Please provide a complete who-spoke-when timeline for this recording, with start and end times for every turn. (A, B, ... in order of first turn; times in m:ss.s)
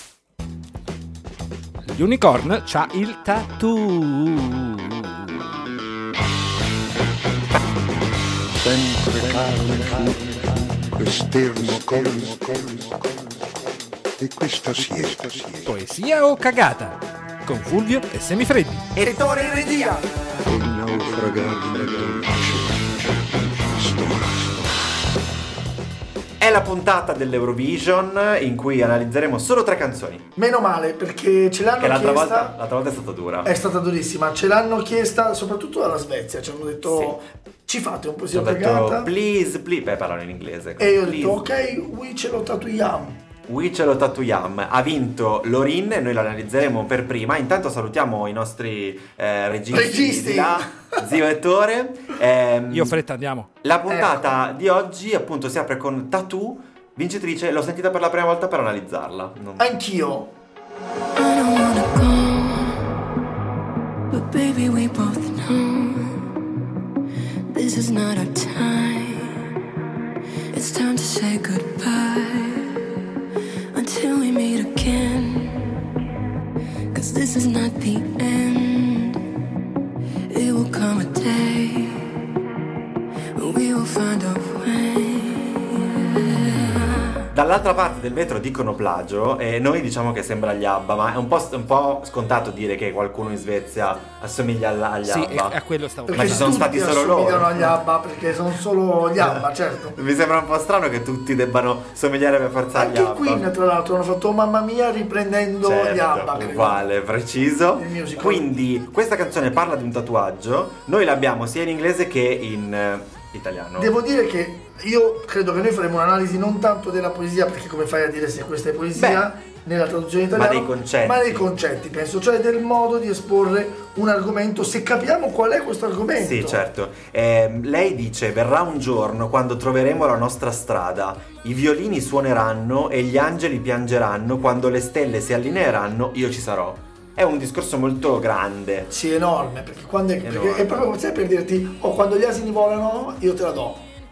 0:01.9-0:05.1 A
0:08.6-0:13.2 B
0:14.2-0:15.7 B
0:15.6-0:18.8 A
0:18.9-0:20.0 C
0:19.0-0:20.1 D
0:20.5-0:24.7 B
0:26.4-0:30.2 C
0:30.4-0:32.6 D
0:31.8-0:33.5 C
0:33.4-0:39.1 D
0:36.8-0:37.2 C
0:38.3-0:41.4 C
0:40.8-0:43.2 D
0:43.5-0:53.0 C
0:49.7-0:51.0 D
0:52.7-0:53.5 A
0:53.6-0:59.7 C
0:53.9-0:54.4 D
0:59.6-1:00.3 D
1:01.2-1:02.8 E
1:04.1-1:06.3 E
1:07.5-1:09.3 E
1:10.5-1:12.8 E
1:13.7-1:15.7 E
1:16.9-1:19.2 E
1:20.3-1:22.0 E
1:23.4-1:27.2 E
1:27.3-1:35.6 C
1:35.0-1:36.6 A
1:36.1-1:40.0 D
1:36.1-1:37.8 C
1:39.2-1:43.4 C
1:42.7-1:46.8 D
1:45.6-1:53.9 C
1:47.7-1:48.5 D
1:53.8-2:06.6 D
1:58.9-1:59.3 C
2:00.3-2:01.5 C
2:06.2-2:18.9 C
2:18.9-2:23.8 D
2:20.2-2:20.9 C